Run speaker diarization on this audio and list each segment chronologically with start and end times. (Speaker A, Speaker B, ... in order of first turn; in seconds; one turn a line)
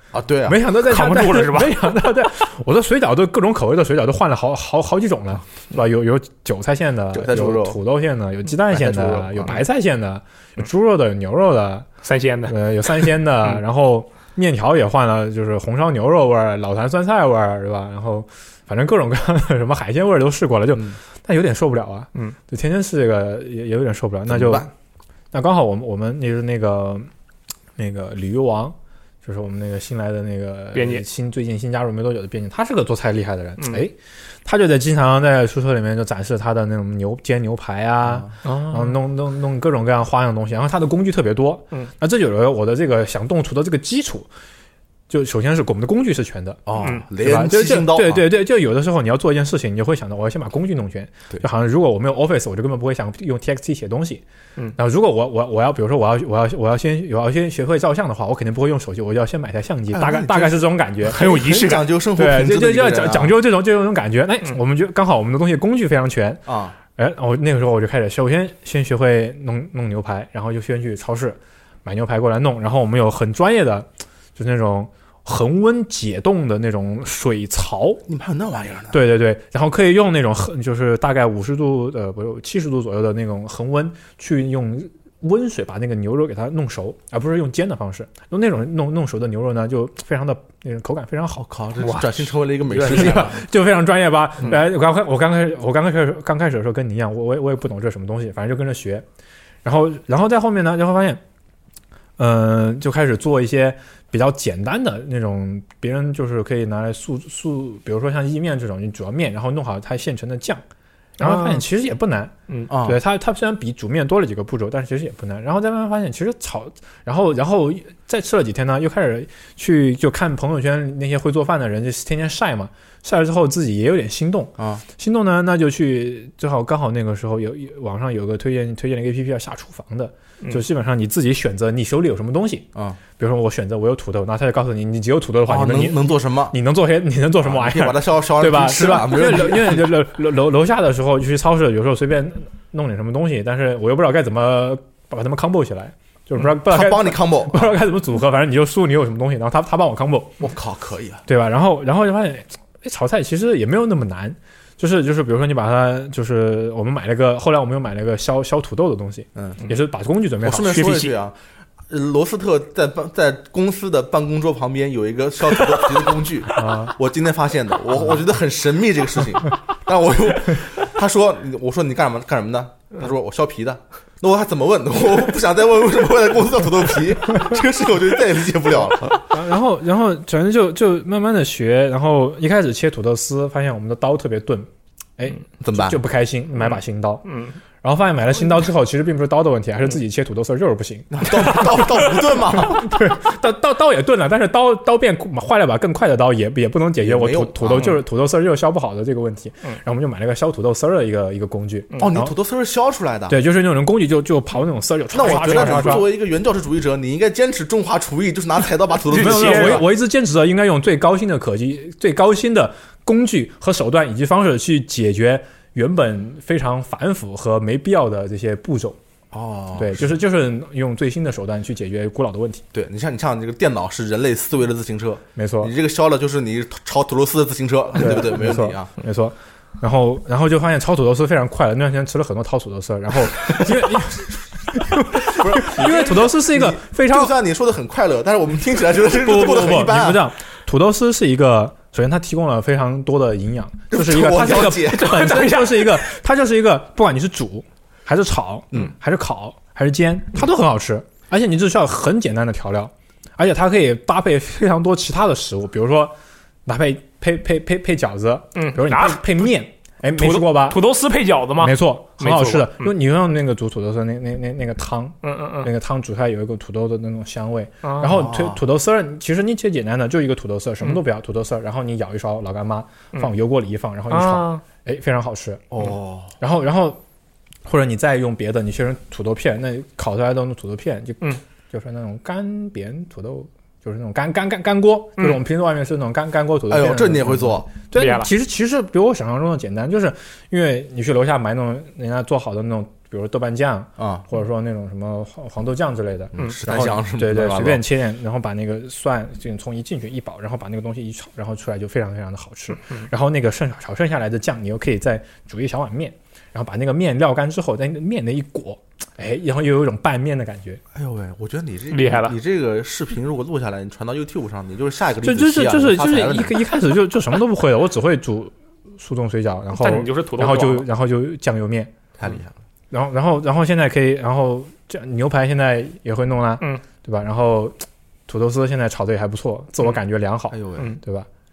Speaker A: 0.1-0.6
Speaker B: 0.5-11.9
Speaker C: 0.8-1.9
Speaker A: 7.1-7.8
Speaker A: 8.7-9.6
Speaker C: 12.0-12.5
Speaker B: 12.5-24.7
Speaker A: 24.3-24.7
Speaker B: 25.3-27.1
Speaker B: 27.8-44.3
Speaker C: 30.7-31.0
Speaker A: 38.0-38.3
Speaker C: 38.4-39.0
Speaker B: 45.1-46.6
Speaker A: 46.6-48.3
Speaker B: 47.1-54.2
Speaker B: 54.8-61.4
Speaker A: 59.9-63.3
Speaker C: 61.1-61.8
Speaker B: 62.1-78.0
Speaker A: 66.5-66.8
Speaker A: 78.1-79.0
Speaker B: 78.9-92.1
Speaker A: 91.4-93.4
Speaker B: 92.7-99.0
Speaker C: 92.8-93.2
Speaker B: 99.6-101.2
Speaker B: 102.2-110.6
Speaker C: 111.2-111.6
Speaker B: 111.2-150.4
Speaker A: 112.7-113.0
Speaker A: 124.6-124.8
Speaker A: 132.7-133.0
Speaker A: 135.4-136.6
Speaker A: 137.4-139.9
Speaker A: 146.5-147.8
Speaker A: 150.4-151.2
Speaker B: 151.2-161.0
Speaker A: 160.4-161.3
Speaker C: 160.7-161.1
Speaker A: 161.9-179.2
Speaker B: 166.6-166.9
Speaker B: 179.3-187.2
Speaker A: 185.6-186.0
Speaker C: 187.2-187.6
Speaker B: 187.8-202.3
Speaker A: 191.1-192.9
Speaker A: 197.0-198.0
Speaker A: 202.0-203.4
Speaker B: 203.3-206.1
Speaker A: 205.1-209.9
Speaker C: 205.2-206.0
Speaker C: 209.1-209.9
Speaker B: 209.1-219.0
Speaker A: 219.3-220.1
Speaker B: 219.8-222.6
Speaker A: 222.7-228.9
Speaker B: 225.3-225.7
Speaker B: 228.0-237.3
Speaker A: 235.2-240.2
Speaker B: 239.1-256.1
Speaker A: 243.9-245.4
Speaker C: 244.8-246.0
Speaker B: 256.6-260.8
Speaker C: 258.5-259.5
Speaker C: 260.2-262.9
Speaker B: 261.6-275.7
Speaker C: 265.2-265.7
Speaker C: 267.8-268.1
Speaker A: 268.0-268.6
Speaker C: 274.1-274.6
Speaker A: 275.7-276.3
Speaker B: 276.4-277.0
Speaker B: 277.6-310.8
Speaker A: 286.7-287.7
Speaker C: 287.9-288.3
Speaker A: 294.0-294.2
Speaker A: 296.3-297.8
Speaker A: 310.9-316.6
Speaker C: 311.9-312.4
Speaker B: 315.2-321.9
Speaker C: 319.7-320.9
Speaker A: 322.2-322.5
Speaker B: 322.9-331.3
Speaker A: 330.5-330.9